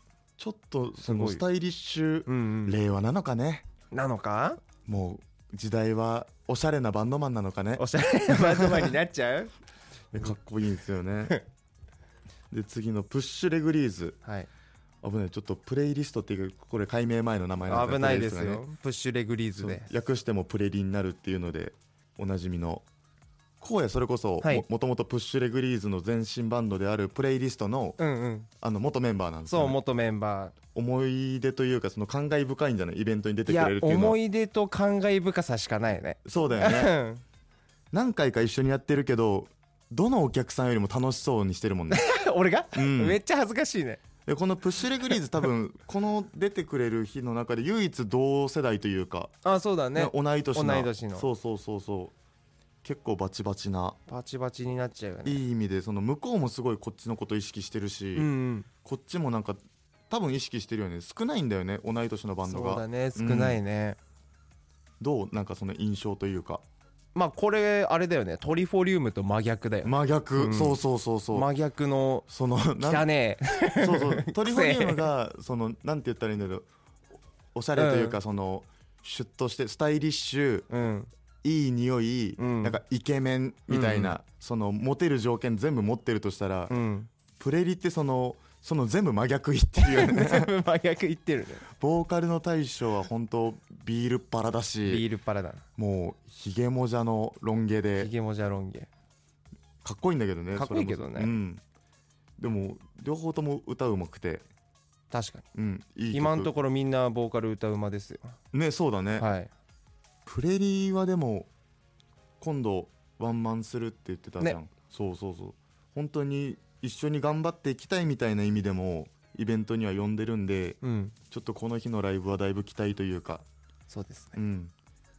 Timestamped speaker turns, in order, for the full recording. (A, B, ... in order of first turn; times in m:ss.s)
0:00.4-0:03.7 A
0:01.0-0:01.4 B
0:02.3-0:02.8 B
0:03.9-0:04.6 B
0:04.9-0:08.9 A
0:07.8-0:09.5 B
0:10.1-0:11.4 A
0:12.5-0:14.2 A
0:15.0-0:18.6 A
0:17.7-0:19.9 B
0:19.6-0:22.8 A
0:23.6-0:28.0 A
0:28.0-0:28.5 B
0:28.6-0:29.8 A
0:29.5-0:30.6 B
0:30.7-0:34.2 A
0:33.5-0:37.2 B
0:36.2-0:36.9 A
0:37.9-0:42.0 A
0:41.9-0:44.0 B
0:42.7-0:43.2 A
0:44.3-0:49.3 A
0:49.4-0:51.3 B
0:50.0-0:52.1 A
0:52.8-0:54.0 A
0:54.1-0:55.4 B
0:55.2-0:58.3 A
0:58.2-0:58.7 B
0:58.8-1:03.6 A
1:02.5-1:04.0 B
1:05.0-1:06.6 A
1:07.2-1:10.8 B
1:09.8-1:11.5 A
1:11.3-1:12.3 B
1:12.3-1:13.1 A
1:12.8-1:15.1 B
1:13.8-1:16.7 A
1:17.6-1:20.7 A
1:17.8-1:18.2 B
1:20.7-1:21.1 B
1:21.4-1:26.8 A
1:22.4-1:22.8 B
1:23.7-1:24.2 B
1:26.7-1:27.1 B
1:27.4-1:30.5 A
1:29.8-1:31.7 B
1:31.8-1:35.0 A
1:34.9-1:35.6 B
1:35.8-1:38.1 A
1:38.0-1:38.9 B
1:39.8-1:41.6 A
1:40.6-1:41.3 B
1:42.4-1:44.4 A
1:45.1-1:45.5 B
1:45.6-1:46.5 A
1:46.1-1:48.3 B
1:48.5-1:49.3 A
1:49.2-1:49.5 B
1:50.3-1:51.5 A
1:52.4-2:00.8 A
2:00.8-2:01.2 B
2:01.3-2:03.4 A
2:03.9-2:04.4 B
2:04.3-2:04.7 A